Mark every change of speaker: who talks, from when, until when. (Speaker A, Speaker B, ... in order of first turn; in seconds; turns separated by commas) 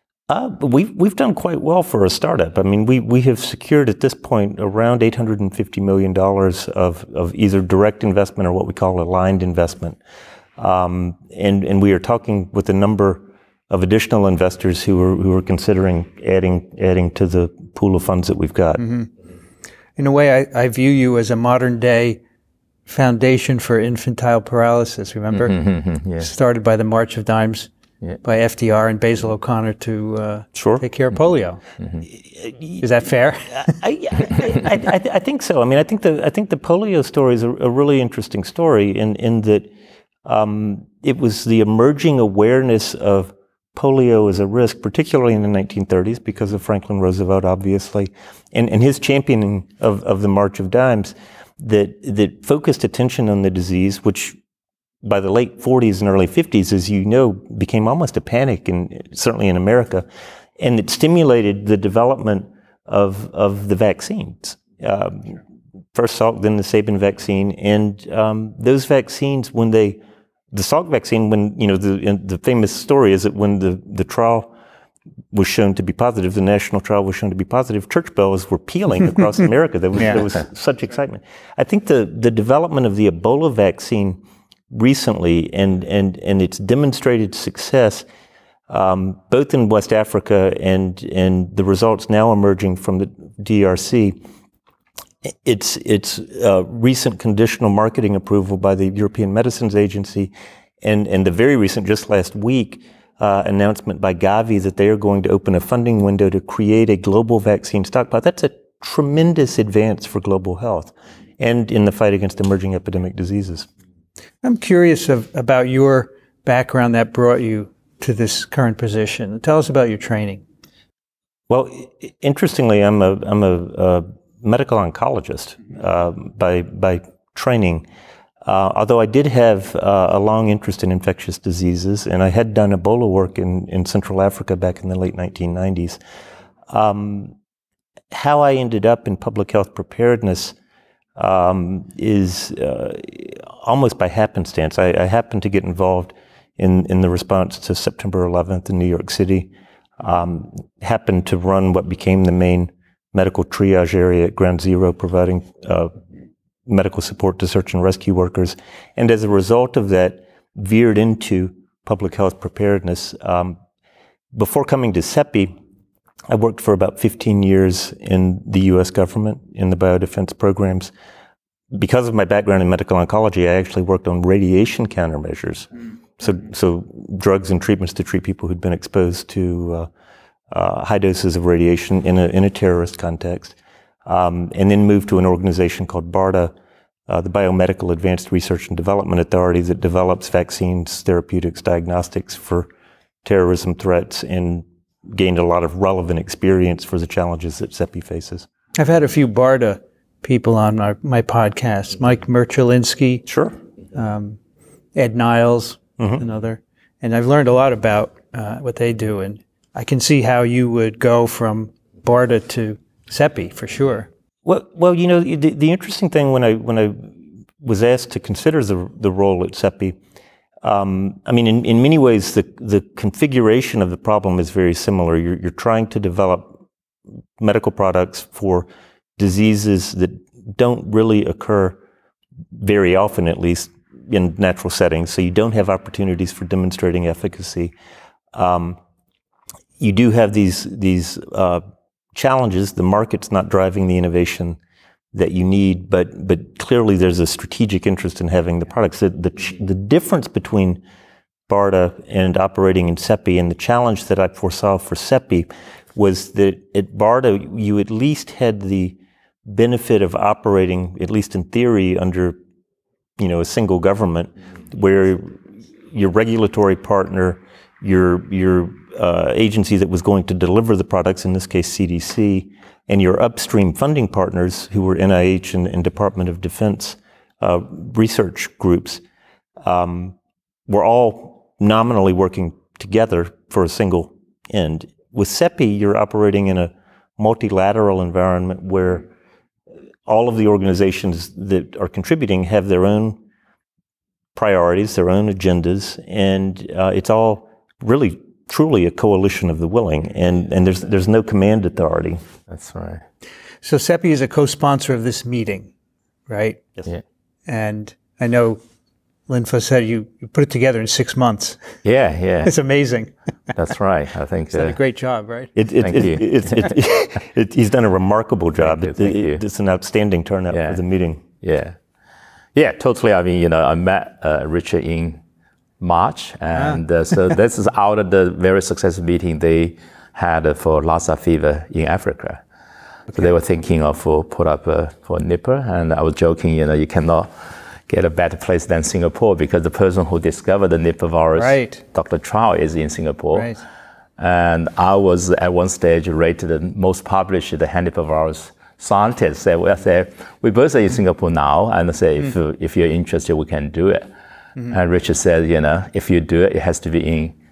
Speaker A: 0.3-10.0, Speaker A: 10.6-18.8, Speaker B: 18.8-19.1, Speaker B: 20.0-22.2, Speaker B: 22.9-25.6, Speaker C: 25.3-26.3, Speaker B: 26.2-27.7, Speaker B: 28.2-31.6, Speaker A: 30.6-30.8, Speaker A: 32.4-32.8, Speaker B: 32.8-33.8, Speaker A: 33.6-39.7, Speaker A: 40.2-54.4, Speaker A: 55.0-60.1, Speaker A: 60.6-65.4, Speaker A: 65.9-70.0, Speaker A: 70.5-74.5, Speaker A: 75.3-84.2, Speaker A: 84.7-88.0, Speaker A: 88.7-94.2, Speaker A: 95.3-113.7, Speaker B: 114.4-120.4, Speaker A: 121.5-127.9, Speaker A: 128.4-136.0, Speaker A: 136.7-137.3, Speaker A: 138.1-140.6, Speaker A: 141.2-155.9, Speaker A: 156.7-163.6, Speaker A: 164.3-165.5, Speaker A: 166.3-170.9, Speaker A: 171.7-179.9, Speaker A: 180.5-183.6, Speaker A: 184.1-186.5, Speaker A: 187.1-192.7, Speaker A: 193.2-198.5, Speaker B: 198.8-203.3, Speaker A: 203.3-203.5, Speaker B: 203.9-204.4, Speaker B: 204.9-214.1, Speaker A: 214.5-217.1, Speaker A: 217.6-220.0, Speaker A: 220.6-226.6, Speaker A: 227.4-231.8, Speaker A: 232.5-237.7, Speaker A: 238.3-238.8, Speaker A: 239.8-241.6, Speaker A: 242.2-244.6, Speaker A: 245.1-250.8, Speaker A: 251.5-262.4, Speaker A: 263.2-279.0, Speaker A: 279.6-280.1, Speaker A: 280.7-289.1, Speaker A: 290.1-293.2, Speaker A: 294.4-302.2, Speaker C: 302.5-303.0, Speaker B: 303.6-305.7, Speaker B: 306.3-306.6, Speaker B: 307.5-308.6, Speaker B: 309.3-311.6, Speaker C: 311.8-312.5, Speaker B: 312.4-313.1, Speaker C: 313.6-314.8, Speaker B: 314.5-315.5, Speaker A: 315.6-321.2, Speaker C: 315.8-316.2, Speaker C: 318.6-319.4, Speaker C: 320.5-320.8, Speaker C: 321.4-321.8, Speaker C: 322.6-325.2, Speaker C: 325.8-332.4, Speaker C: 333.1-337.3, Speaker C: 337.9-343.6, Speaker B: 341.4-341.8, Speaker B: 343.3-343.6, Speaker C: 344.2-354.1, Speaker C: 354.7-357.4